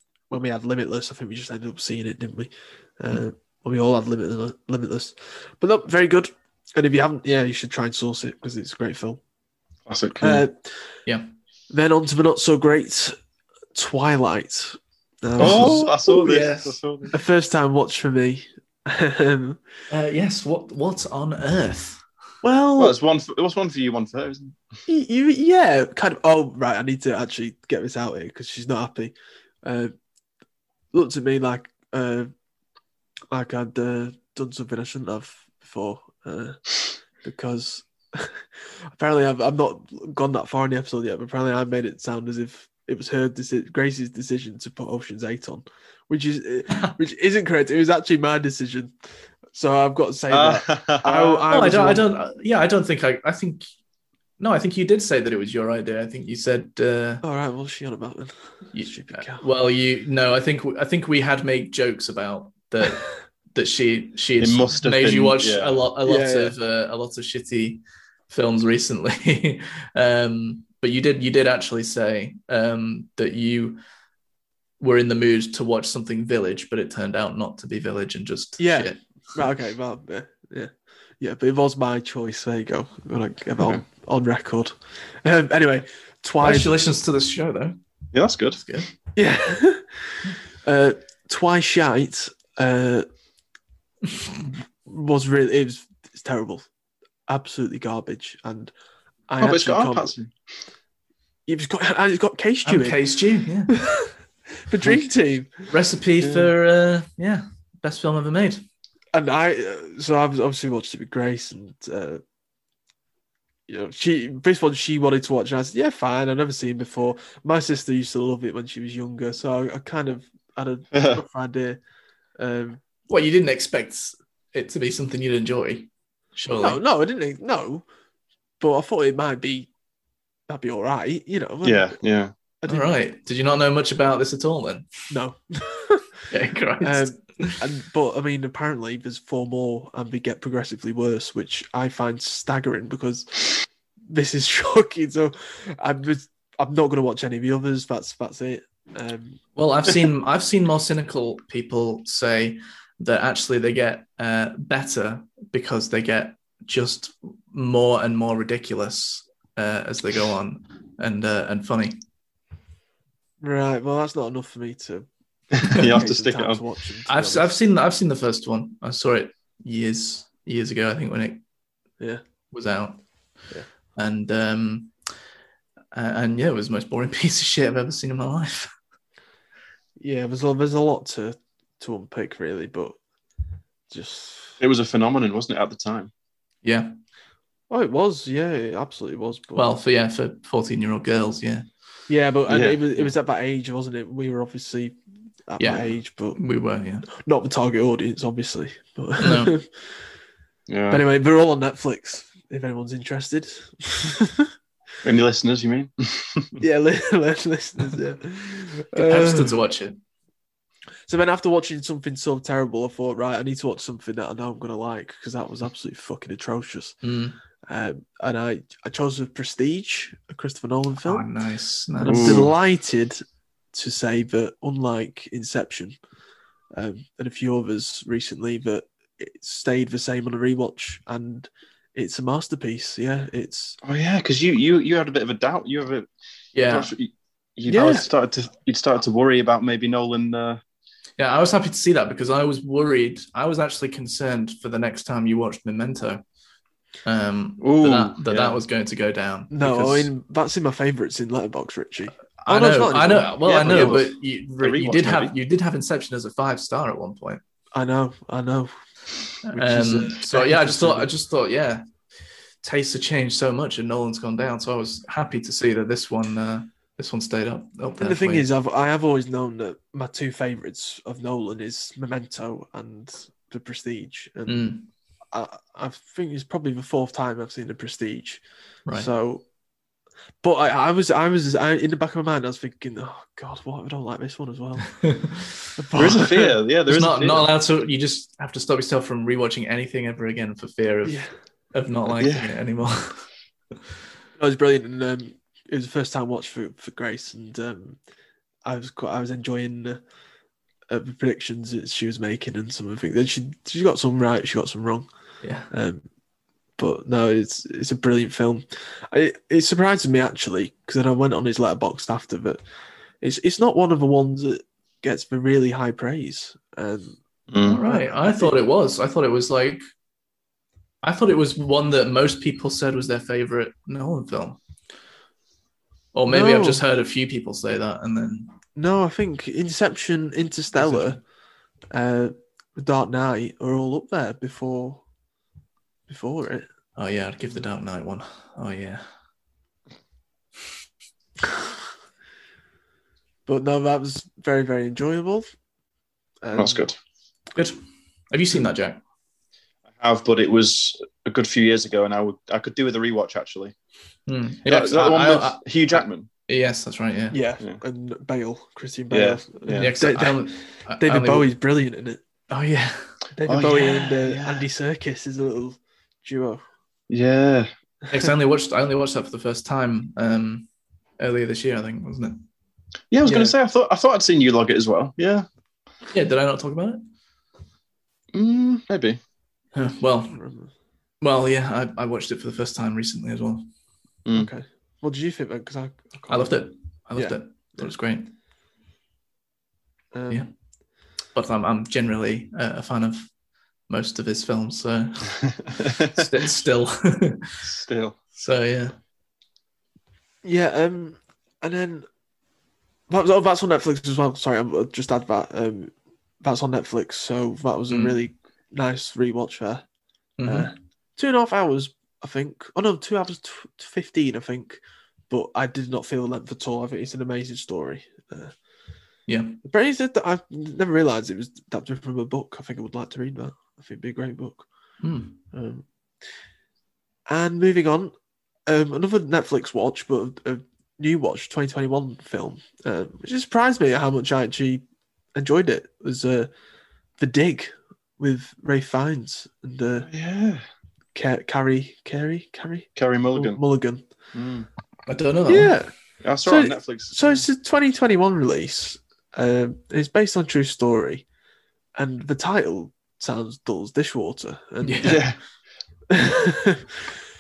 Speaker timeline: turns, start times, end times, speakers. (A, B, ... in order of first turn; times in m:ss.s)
0:00.3-0:09.2 A
0:09.9-0:10.4 B
0:10.2-0:10.7 A
0:11.7-0:13.2 A
0:13.7-0:16.0 A
0:15.4-0:16.8 C
0:15.4-0:17.1 B
0:17.1-0:19.6 A
0:19.9-0:22.0 C
0:22.4-0:23.0 A
0:22.8-0:24.6 B
0:24.9-0:29.9 A
0:30.9-0:32.3 A
0:33.3-0:36.7 A
0:37.2-0:38.4 A
0:39.0-0:48.9 A
0:49.5-0:52.1 A
0:50.3-0:51.4 B
0:51.5-0:53.7 C
0:54.4-0:57.2 C
0:57.2-0:59.4 A
0:58.7-1:13.8 C
1:04.4-1:05.8 B
1:06.1-1:06.6 A
1:14.8-1:19.0 C
1:18.6-1:26.7 A
1:26.4-1:27.8 C
1:28.1-1:28.6 B
1:28.6-1:28.9 C
1:29.2-1:33.1 A
1:34.8-1:36.7 A
1:37.3-1:38.7 A
1:39.3-1:40.1 A
1:39.4-1:40.3 B
1:41.5-1:43.0 A
1:42.6-1:43.7 C
1:43.7-1:44.1 A
1:44.6-1:45.5 A
1:45.7-1:48.6 C
1:49.1-1:52.2 A
1:53.7-2:01.8 A
2:00.9-2:01.2 B
2:02.4-2:02.8 A
2:03.1-2:06.8 C
2:06.6-2:07.8 A
2:08.6-2:09.7 A
2:10.5-2:12.0 A
2:11.6-2:12.3 B
2:12.6-2:12.9 A
2:12.7-2:14.9 C
2:15.1-2:16.1 A
2:16.3-2:17.6 C
2:16.8-2:29.4 A
2:29.6-2:42.0 C
2:43.4-2:45.1 A
2:45.6-2:46.6 B
2:45.6-2:47.5 A
2:47.1-2:51.4 C
2:52.5-2:53.0 C
2:54.0-2:55.0 C
2:55.9-2:58.7 C
3:00.0-3:03.0 A
3:03.9-3:04.6 A
3:04.6-3:06.1 B
3:06.6-3:06.9 C
3:07.7-3:09.8 A
3:09.6-3:11.7 C
3:12.1-3:15.0 A
3:12.5-3:13.1 B
3:15.5-3:16.4 A
3:15.6-3:17.1 C
3:17.1-3:19.7 A
3:19.2-3:19.5 C
3:20.7-3:21.0 B
3:20.9-3:24.5 A
3:25.0-3:26.6 B
3:26.6-3:29.6 A
3:29.0-3:30.0 C
3:31.1-3:37.0 A
3:37.0-3:37.4 C
3:37.7-3:41.3 A
3:41.0-3:42.5 C
3:42.0-3:43.2 A
3:42.0-3:42.5 B
3:43.7-3:46.0 A
3:46.8-3:53.8 A
3:53.8-3:56.1 B
3:56.6-3:56.9 C
3:56.6-4:00.6 B
3:57.7-3:58.1 A
4:01.2-4:06.2 C
4:07.0-4:10.1 C
4:07.6-4:08.6 B
4:09.5-4:14.0 A
4:12.4-4:17.4 C
4:13.4-4:15.3 B
4:17.7-4:18.8 A
4:19.4-4:21.9 C
4:19.5-4:21.1 A
4:22.6-4:28.5 C
4:28.0-4:34.7 A
4:34.5-4:34.9 C
4:35.3-4:39.4 A
4:40.4-4:44.9 A
4:45.0-4:45.6 C
4:45.8-4:46.6 A
4:46.0-4:47.5 B
4:46.9-4:53.2 C
4:51.0-4:51.3 A
4:52.2-4:52.5 B
4:54.4-4:58.0 A
4:58.6-5:00.0 A
5:00.9-5:05.1 A
5:05.4-5:05.7 C
5:05.7-5:06.1 A
5:06.8-5:12.6 A
5:13.2-5:17.2 A
5:17.5-5:17.8 B
5:17.6-5:19.8 C
5:17.8-5:18.6 A
5:21.0-5:24.6 C
5:26.1-5:28.6 C
5:26.3-5:26.8 A
5:28.8-5:31.2 A
5:30.7-5:31.2 C
5:31.9-5:35.0 A
5:36.1-5:36.7 A
5:37.0-5:39.1 C
5:43.5-5:45.5 A
5:46.4-5:46.9 A
5:46.5-5:47.0 B
5:47.5-5:49.0 C
5:50.0-5:53.8 B
5:54.3-5:57.4 C
5:54.7-5:56.3 B
5:57.3-6:02.2 A
5:59.1-5:59.9 B
5:59.7-6:01.5 C
6:02.5-6:03.1 C
6:03.4-6:06.6 A
6:03.5-6:04.6 B
6:07.1-6:07.7 B
6:08.1-6:10.7 C
6:11.2-6:12.4 C
6:13.1-6:15.5 B
6:13.2-6:13.5 A
6:16.1-6:17.0 C
6:18.3-6:19.2 B
6:19.8-6:20.4 C
6:20.3-6:20.7 A
6:21.2-6:23.7 C
6:24.3-6:27.9 A
6:26.3-6:28.3 C
6:30.1-6:30.5 A
6:31.3-6:33.3 C
6:33.9-6:35.6 C
6:35.8-6:36.3 B
6:36.1-6:37.5 C
6:37.6-6:38.2 B
6:38.4-6:39.0 C
6:40.4-6:42.1 A
6:43.1-6:49.8 A
6:47.9-6:48.2 C
6:50.4-6:50.7 C
6:50.4-6:58.5 A
6:59.3-6:59.6 C
6:59.6-7:04.7 A
7:05.0-7:05.4 C
7:05.5-7:05.8 A
7:07.3-7:08.1 A
7:08.7-7:14.8 A
7:15.4-7:16.5 A
7:17.2-7:20.1 A
7:20.1-7:20.6 B
7:21.2-7:24.1 A
7:23.0-7:23.6 B
7:24.3-7:24.7 B
7:25.1-7:25.7 C
7:25.5-7:25.9 A
7:26.2-7:27.4 B
7:26.4-7:31.2 A
7:32.0-7:35.2 A
7:34.8-7:35.2 C
7:35.0-7:35.4 B
7:36.1-7:37.1 A